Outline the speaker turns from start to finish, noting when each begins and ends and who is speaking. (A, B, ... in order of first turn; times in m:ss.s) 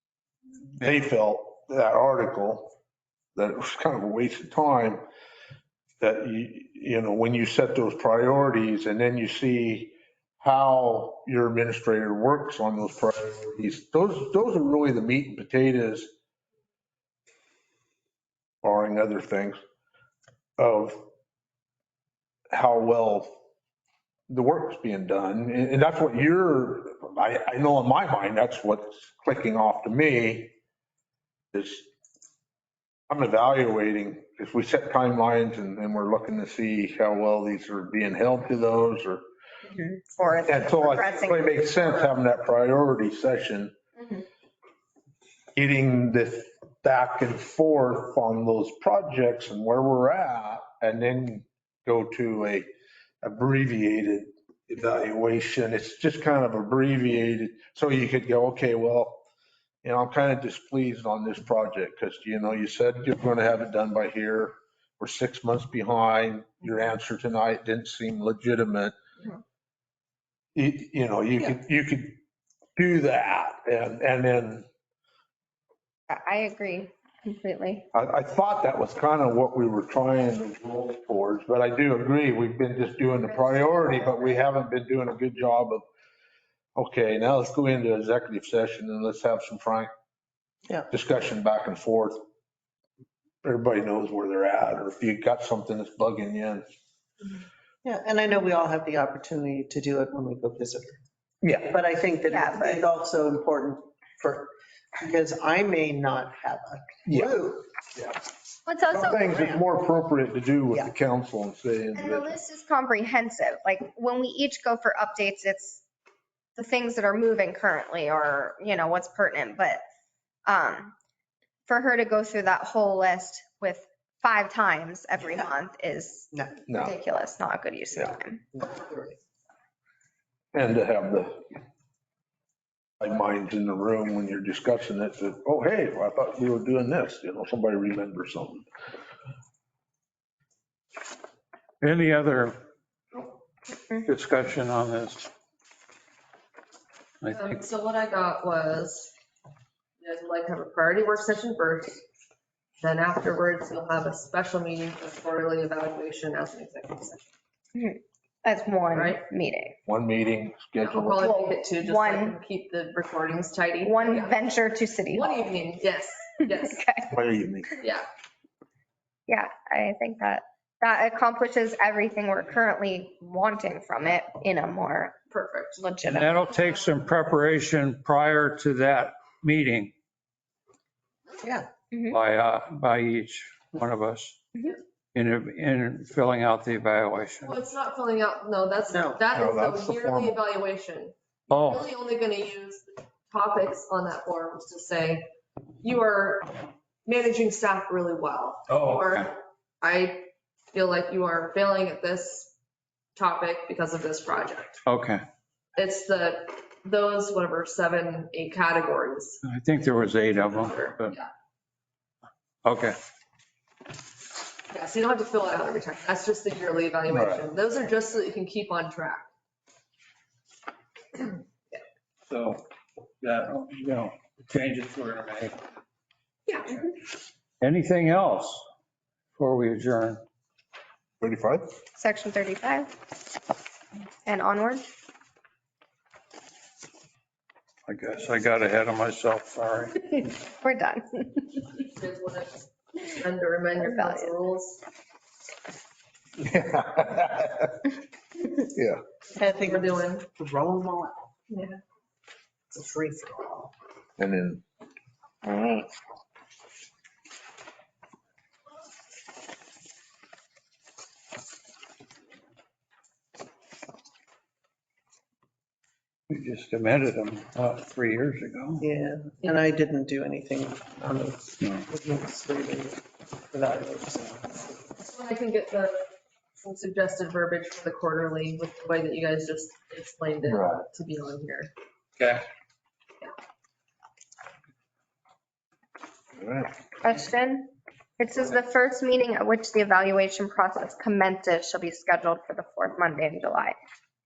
0:00.8-0:02.7 A
0:03.4-0:05.0 A
0:06.0-0:16.1 A
0:18.6-0:19.6 A
0:20.6-0:21.0 A
0:22.5-0:23.3 A
0:24.3-0:30.5 A
0:31.5-0:31.9 A
0:33.1-0:39.2 A
0:39.6-0:42.1 B
0:40.4-0:43.7 A
0:44.0-0:44.2 B
0:45.6-0:52.7 A
0:53.2-0:59.2 A
0:59.8-1:08.9 A
1:10.5-1:12.2 A
1:12.8-1:14.7 A
1:16.1-1:17.9 B
1:17.9-1:25.8 A
1:23.3-1:24.4 B
1:26.8-1:29.9 A
1:30.9-1:32.2 A
1:33.4-1:36.7 A
1:37.8-1:41.0 C
1:41.4-1:41.7 A
1:41.6-1:47.6 C
1:42.3-1:42.8 B
1:47.0-1:47.4 A
1:47.9-1:48.2 A
1:48.7-1:49.2 B
1:48.9-1:52.3 A
1:49.1-1:49.6 C
1:51.9-1:55.8 B
1:56.6-1:59.8 B
2:00.4-2:00.9 B
2:01.7-2:08.4 B
2:08.6-2:09.1 C
2:10.5-2:11.5 A
2:13.0-2:18.6 A
2:21.8-2:22.6 D
2:24.0-2:25.3 D
2:27.2-2:27.6 D
2:27.3-2:29.1 E
2:30.0-2:32.0 E
2:32.8-2:37.3 E
2:37.7-2:39.8 B
2:38.9-2:39.2 E
2:39.9-2:41.2 A
2:40.8-2:44.4 E
2:41.1-2:42.4 B
2:43.8-2:45.4 B
2:45.1-2:46.8 E
2:46.4-2:47.1 B
2:47.1-2:47.7 A
2:47.8-2:48.1 E
2:49.3-2:55.2 B
2:55.3-2:55.8 E
2:55.8-2:56.8 B
2:56.0-2:59.9 D
3:01.4-3:01.7 C
3:01.9-3:02.2 B
3:02.1-3:04.4 D
3:05.1-3:07.6 D
3:07.4-3:15.3 E
3:08.9-3:09.2 C
3:09.3-3:10.4 A
3:11.5-3:11.8 D
3:15.8-3:22.5 E
3:18.7-3:19.3 D
3:23.2-3:24.8 E
3:24.8-3:25.2 D
3:25.8-3:29.4 E
3:29.4-3:31.1 D
3:30.5-3:31.3 E
3:32.6-3:33.0 D
3:34.7-3:39.3 E
3:37.1-3:37.4 A
3:42.3-3:42.6 D
3:43.2-3:45.6 D
3:46.5-3:46.8 E
3:47.6-3:48.6 D
3:49.3-3:50.2 D
3:51.2-3:51.7 A
3:52.0-3:52.9 B
3:54.2-3:54.9 B
3:57.9-4:00.2 D
4:00.1-4:01.6 B
4:01.7-4:04.8 E
4:03.8-4:04.3 B
4:06.4-4:07.8 A
4:08.7-4:09.0 A
4:09.3-4:11.3 C
4:09.3-4:10.2 E
4:11.5-4:11.8 E
4:12.7-4:13.7 C
4:14.2-4:14.6 A
4:15.4-4:15.9 B
4:26.3-4:28.8 D
4:28.8-4:34.7 C
4:31.6-4:31.8 D
4:35.0-4:36.1 E
4:36.6-4:41.7 E
4:40.5-4:40.8 A
4:42.2-4:42.4 D
4:46.4-4:46.7 A
4:47.0-4:53.8 B